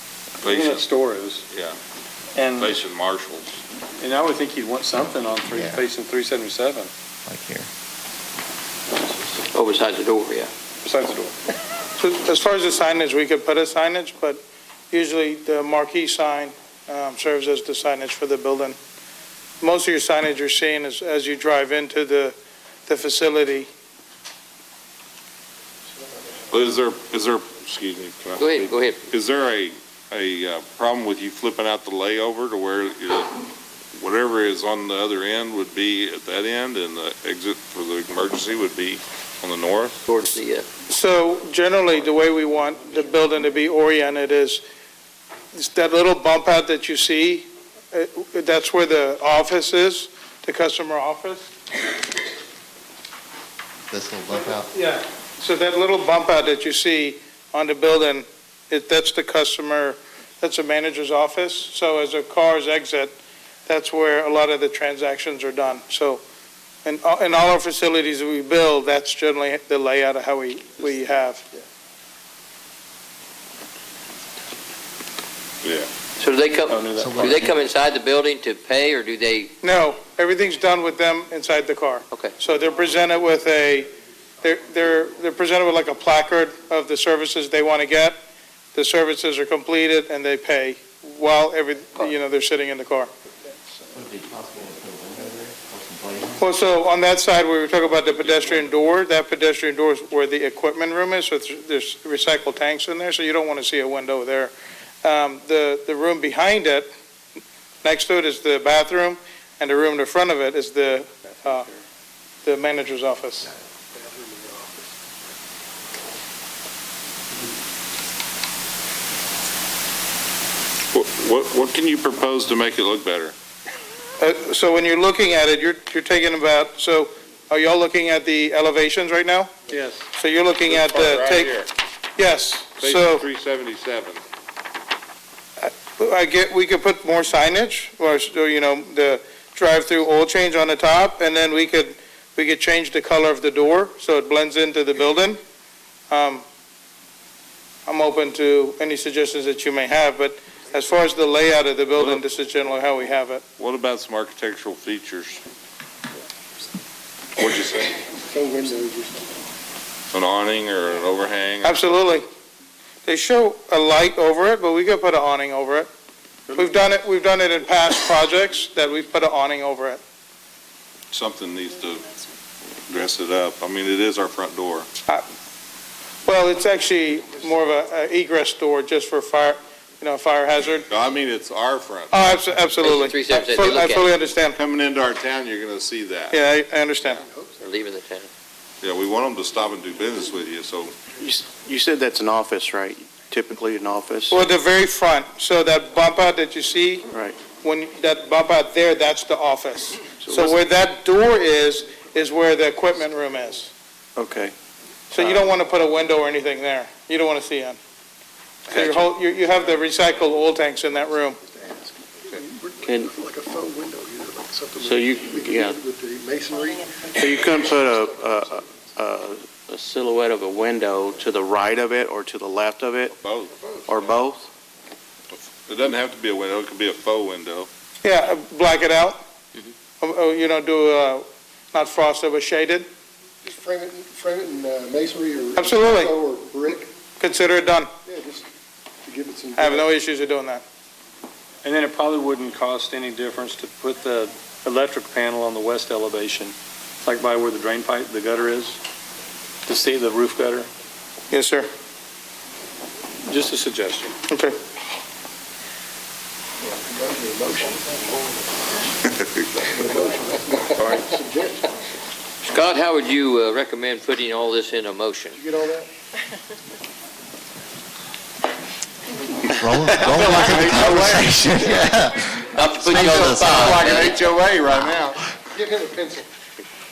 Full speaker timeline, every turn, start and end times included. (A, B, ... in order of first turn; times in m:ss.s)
0:00.4-0:01.4 A
0:00.4-0:00.9 B
0:01.5-0:01.8 B
0:02.3-0:02.7 A
0:02.6-0:03.6 B
0:04.0-0:06.9 A
0:05.0-0:05.8 C
0:07.2-0:07.7 C
0:09.5-0:10.5 D
0:10.8-0:11.4 A
0:12.0-0:18.8 E
0:19.6-0:22.4 E
0:22.9-0:23.7 E
0:25.9-0:26.5 F
0:26.5-0:40.0 B
0:28.4-0:29.0 D
0:40.1-0:40.6 D
0:40.9-0:44.6 E
0:45.5-0:51.5 E
0:53.9-0:54.7 C
0:54.7-1:03.1 E
1:03.6-1:06.2 E
1:06.8-1:11.4 E
1:15.6-1:15.9 B
1:16.2-1:19.5 D
1:16.7-1:17.4 A
1:17.0-1:17.6 C
1:19.6-1:28.2 E
1:22.1-1:22.4 D
1:28.7-1:33.1 E
1:33.9-1:36.4 C
1:36.4-1:44.5 E
1:45.0-1:46.9 E
1:47.8-1:51.7 E
1:52.4-1:53.5 E
1:53.9-1:55.0 F
2:00.9-2:03.3 B
2:04.2-2:09.6 E
2:09.7-2:10.1 A
2:10.1-2:11.6 E
2:10.6-2:11.7 B
2:12.2-2:13.2 E
2:12.8-2:14.2 B
2:15.6-2:25.4 E
2:26.1-2:26.4 E
2:27.9-2:33.4 E
2:32.0-2:32.2 B
2:33.6-2:35.4 B
2:37.4-2:38.0 B
2:38.2-2:39.4 F
2:40.1-2:41.9 B
2:41.6-2:42.2 E
2:43.0-2:45.9 E
2:46.5-2:50.0 E
2:51.1-2:52.1 B
2:52.9-2:54.9 B
2:56.2-3:00.9 E
3:00.9-3:02.4 B
3:02.1-3:04.6 E
3:02.8-3:04.1 D
3:04.5-3:06.4 B
3:06.3-3:07.2 E
3:07.2-3:07.6 F
3:07.6-3:08.3 D
3:08.8-3:11.0 B
3:11.2-3:14.4 G
3:14.3-3:17.0 E
3:17.1-3:17.5 G
3:17.6-3:23.7 E
3:20.1-3:20.6 G
3:24.2-3:24.5 G
3:25.1-3:27.8 E
3:25.2-3:25.5 G
3:28.7-3:29.1 B
3:28.7-3:31.4 E
3:31.4-3:37.1 F
3:32.8-3:33.1 G
3:34.8-3:35.8 G
3:37.1-3:43.1 G
3:38.0-3:38.6 F
3:43.1-3:44.2 B
3:43.9-3:44.5 G
3:45.3-3:47.7 B
3:48.0-3:49.2 E
3:50.0-3:52.9 E
3:53.5-3:56.9 F
3:55.6-3:56.2 E
3:57.2-3:57.9 E
3:58.0-3:58.5 F
3:59.0-3:59.9 F
3:59.6-4:00.6 E
4:01.6-4:08.8 A
4:09.6-4:10.7 A
4:11.3-4:11.7 E
4:13.2-4:14.2 A
4:14.3-4:14.6 E
4:16.6-4:18.4 F
4:19.7-4:21.6 F
4:22.4-4:25.4 D
4:25.3-4:25.9 F
4:29.5-4:34.1 C
4:30.0-4:31.3 B
4:32.5-4:34.2 D
4:33.0-4:35.2 B
4:35.5-4:36.3 F